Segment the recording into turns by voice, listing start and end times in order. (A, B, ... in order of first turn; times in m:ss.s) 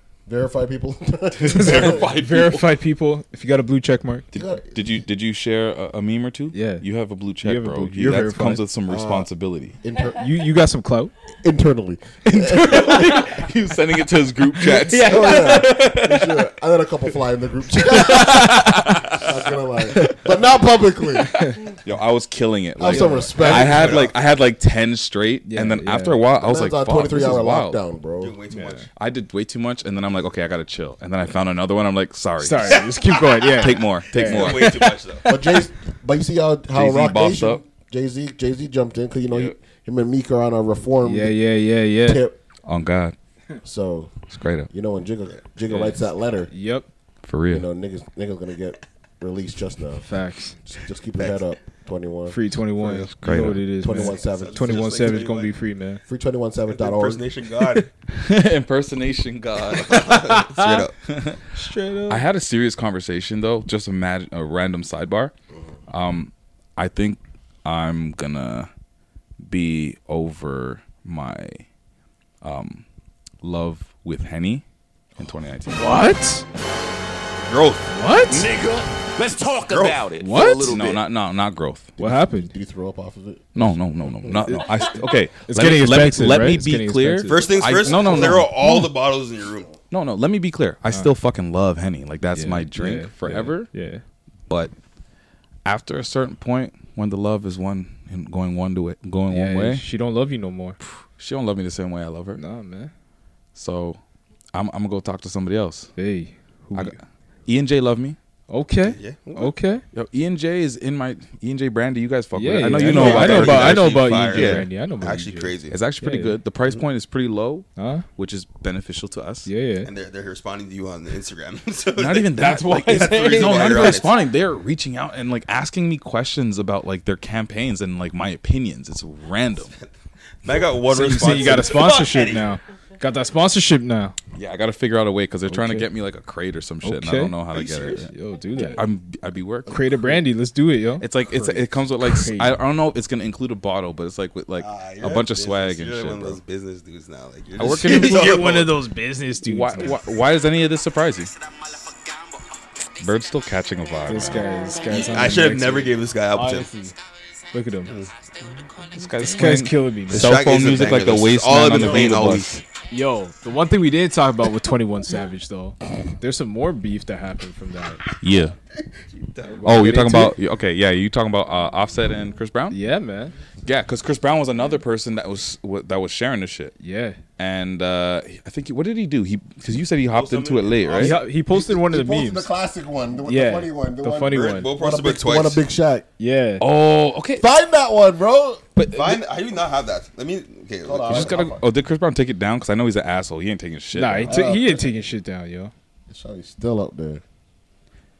0:00.3-0:02.1 A
0:01.4-0:02.7 B
0:01.6-0:04.3 C
0:04.3-0:04.8 A
0:04.3-0:09.8 B
0:06.5-0:06.8 C
0:07.4-0:08.6 C
0:08.9-0:09.3 A
0:09.8-0:10.3 A
0:10.2-0:11.1 C
0:11.4-0:13.3 A
0:12.2-0:13.5 C
0:13.3-0:16.2 B
0:14.6-0:16.1 C
0:14.9-0:21.6 A
0:18.1-0:18.9 C
0:20.0-0:20.2 C
0:21.8-0:27.8 B
0:22.8-0:24.1 A
0:22.9-0:23.5 C
0:23.4-0:24.2 D
0:25.5-0:26.2 C
0:26.3-0:28.4 A
0:28.2-0:28.9 D
0:28.5-0:28.9 C
0:29.0-0:32.9 B
0:32.4-0:35.6 C
0:33.6-0:34.9 B
0:34.2-0:35.3 D
0:35.3-0:41.4 A
0:36.7-0:37.6 B
0:41.0-0:42.2 C
0:42.0-0:42.4 A
0:42.7-0:43.2 B
0:43.6-0:44.2 A
0:44.3-0:44.7 B
0:44.7-0:46.5 A
0:45.7-0:46.9 C
0:47.2-0:47.7 B
0:47.5-0:50.1 A
0:50.1-0:50.6 C
0:50.6-0:54.8 A
0:51.2-0:51.5 D
0:52.3-0:56.0 C
0:52.9-0:53.7 B
0:54.2-0:55.5 D
0:56.1-0:57.2 A
0:56.7-0:57.9 D
0:58.1-1:00.4 B
0:59.7-1:00.9 D
0:59.9-1:00.8 C
1:01.1-1:01.4 B
1:01.5-1:02.2 C
1:02.1-1:05.3 B
1:05.9-1:08.7 B
1:09.4-1:11.6 B
1:12.4-1:12.8 B
1:13.4-1:14.6 B
1:15.2-1:15.9 B
1:15.7-1:16.4 C
1:17.4-1:17.9 D
1:17.9-1:18.5 C
1:18.3-1:21.0 E
1:19.6-1:20.1 D
1:20.2-1:20.8 C
1:20.6-1:21.9 B
1:22.0-1:24.5 A
1:22.0-1:22.5 C
1:23.6-1:28.8 B
1:24.5-1:28.7 C
1:27.3-1:29.8 D
1:29.9-1:33.7 B
1:32.3-1:34.0 C
1:35.6-1:39.8 B
1:39.3-1:40.8 C
1:40.8-1:42.4 B
1:42.4-1:42.9 C
1:43.6-1:44.0 B
1:44.5-1:45.9 B
1:46.0-1:47.0 C
1:46.7-1:48.2 B
1:48.5-1:49.8 C
1:48.8-1:49.5 D
1:49.9-1:54.7 B
1:52.4-1:56.4 C
1:52.8-1:55.8 D
1:55.7-1:59.5 B
1:57.8-1:58.1 C
1:59.5-1:59.9 C
1:59.8-2:04.3 D
2:02.0-2:09.7 B
2:02.4-2:04.0 C
2:10.4-2:12.5 D
2:10.9-2:14.2 C
2:14.4-2:18.1 B
2:15.5-2:15.9 C
2:16.8-2:17.4 C
2:17.5-2:18.1 D
2:17.9-2:18.8 C
2:18.7-2:20.2 B
2:19.7-2:22.6 C
2:21.0-2:26.4 B
2:24.6-2:28.8 D
2:27.6-2:28.6 B
2:27.8-2:30.0 C
2:29.4-2:31.3 B
2:33.0-2:34.5 B
2:34.1-2:37.0 C
2:34.8-2:36.7 D
2:37.5-2:37.9 C
2:37.9-2:38.5 D
2:38.9-2:42.6 B
2:39.0-2:40.3 C
2:40.1-2:42.6 D
2:42.9-2:48.0 C
2:48.2-2:48.6 B
2:48.9-2:50.0 D
2:49.6-2:50.4 C
2:49.6-2:52.8 B
2:52.7-2:53.3 C
2:53.7-2:56.8 B
2:56.8-2:57.2 C
2:57.4-3:01.2 B
3:00.1-3:01.2 D
3:01.0-3:02.5 C
3:01.3-3:06.1 A
3:03.3-3:04.7 C
3:04.3-3:05.6 D
3:06.2-3:06.6 C
3:06.6-3:07.5 B
3:07.4-3:08.6 A
3:08.8-3:09.2 B
3:08.9-3:11.4 D
3:10.8-3:11.6 A
3:11.1-3:14.4 B
3:14.0-3:15.7 C
3:14.2-3:14.9 A
3:16.1-3:17.2 A